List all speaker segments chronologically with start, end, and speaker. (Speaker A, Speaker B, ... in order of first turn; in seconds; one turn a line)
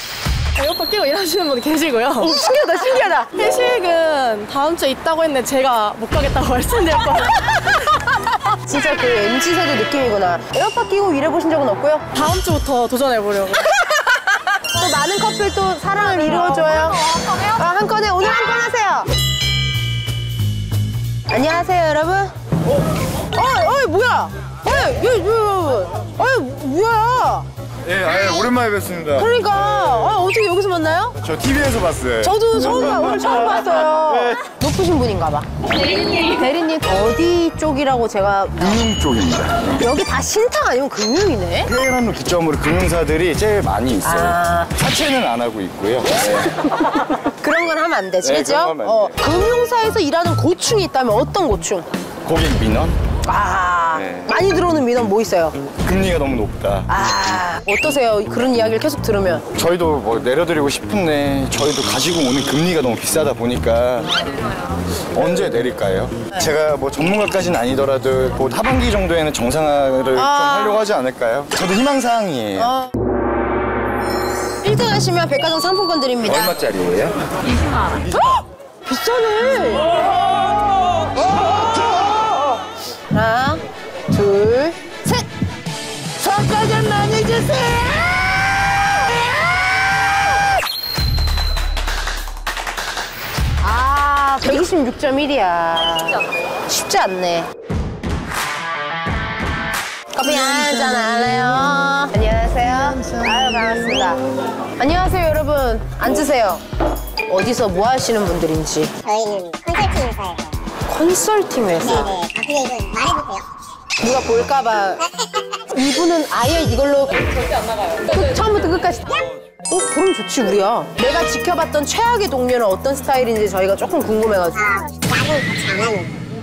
Speaker A: 0.6-2.4
Speaker B: 2.2-3.3
Speaker A: 3.3-7.8
Speaker B: 8.5-12.1
Speaker A: 12.1-13.7
Speaker B: 13.6-19.1
Speaker A: 16.3-17.5
Speaker B: 21.3-22.3
Speaker B: 23.3-27.5
Speaker C: 27.9-29.3
Speaker B: 29.2-31.2
Speaker C: 31.2-34.4
Speaker B: 32.2-38.9
Speaker C: 38.6-39.8
Speaker B: 39.8-41.7
Speaker C: 41.7-46.5
Speaker B: 44.0-44.7
Speaker B: 47.4-51.9
Speaker C: 48.2-49.2
Speaker C: 52.2-53.0
Speaker B: 53.2-55.6
Speaker C: 53.9-54.4
Speaker C: 55.8-56.9
Speaker B: 56.9-59.5
Speaker C: 59.5-64.1
Speaker C: 65.1-72.7
Speaker B: 70.2-70.8
Speaker B: 72.6-72.9
Speaker B: 74.6-76.5
Speaker C: 76.3-77.2
Speaker B: 78.1-80.0
Speaker B: 81.2-82.1
Speaker B: 83.1-83.6
Speaker B: 84.1-85.3
Speaker B: 86.2-88.1
Speaker B: 93.6-97.5
Speaker B: 100.1-104.2
Speaker B: 104.8-106.6
Speaker B: 107.3-108.9
Speaker D: 109.0-110.6
Speaker B: 110.9-112.2
Speaker D: 111.9-113.5
Speaker B: 114.0-115.0
Speaker D: 115.0-115.7
Speaker B: 115.7-117.5
Speaker B: 118.0-124.6
Speaker D: 124.6-126.2